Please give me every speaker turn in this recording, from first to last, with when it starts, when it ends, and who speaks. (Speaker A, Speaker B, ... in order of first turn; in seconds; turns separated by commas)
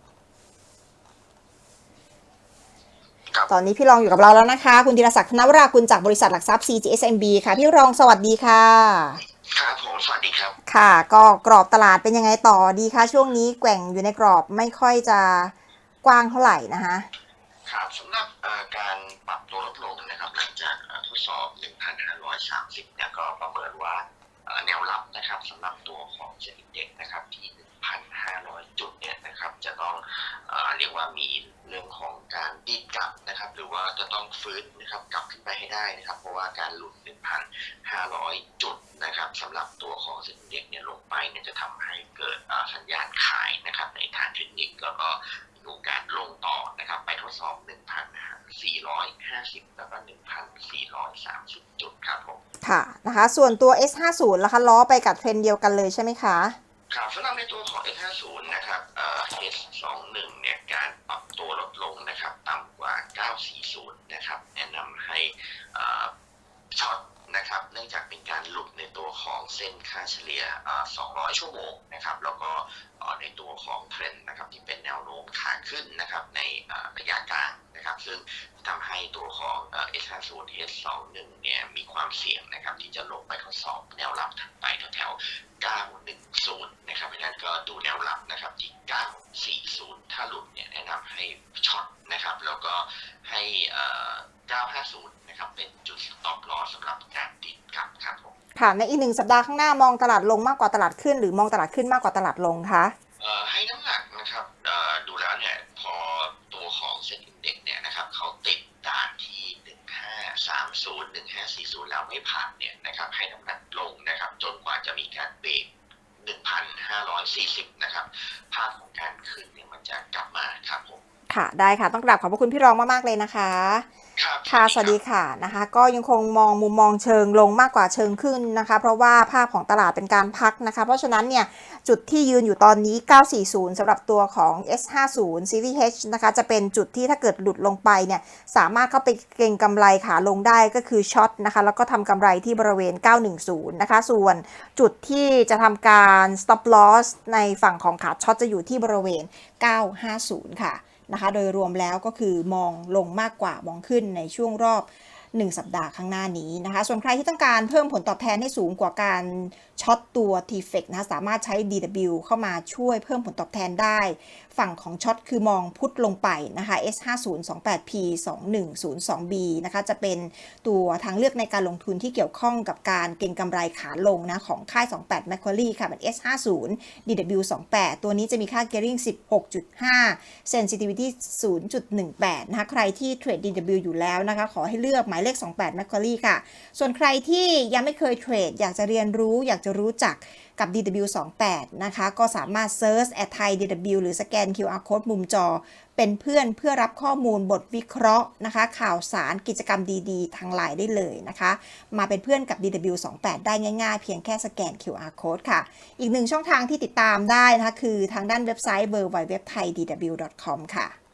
Speaker A: 3.3-3.5, Speaker B: 3.5-9.2, Speaker A: 9.5-10.6, Speaker B: 10.7-17.1, Speaker A: 17.7-52.4, Speaker B: 52.6-56.6, Speaker A: 56.9-66.1, Speaker A: 66.7-98.3, Speaker B: 98.5-103.0, Speaker A: 103.2-115.7, Speaker A: 116.2-121.0, Speaker B: 121.3-123.9, Speaker A: 124.2-125.0, Speaker B: 124.5-210.9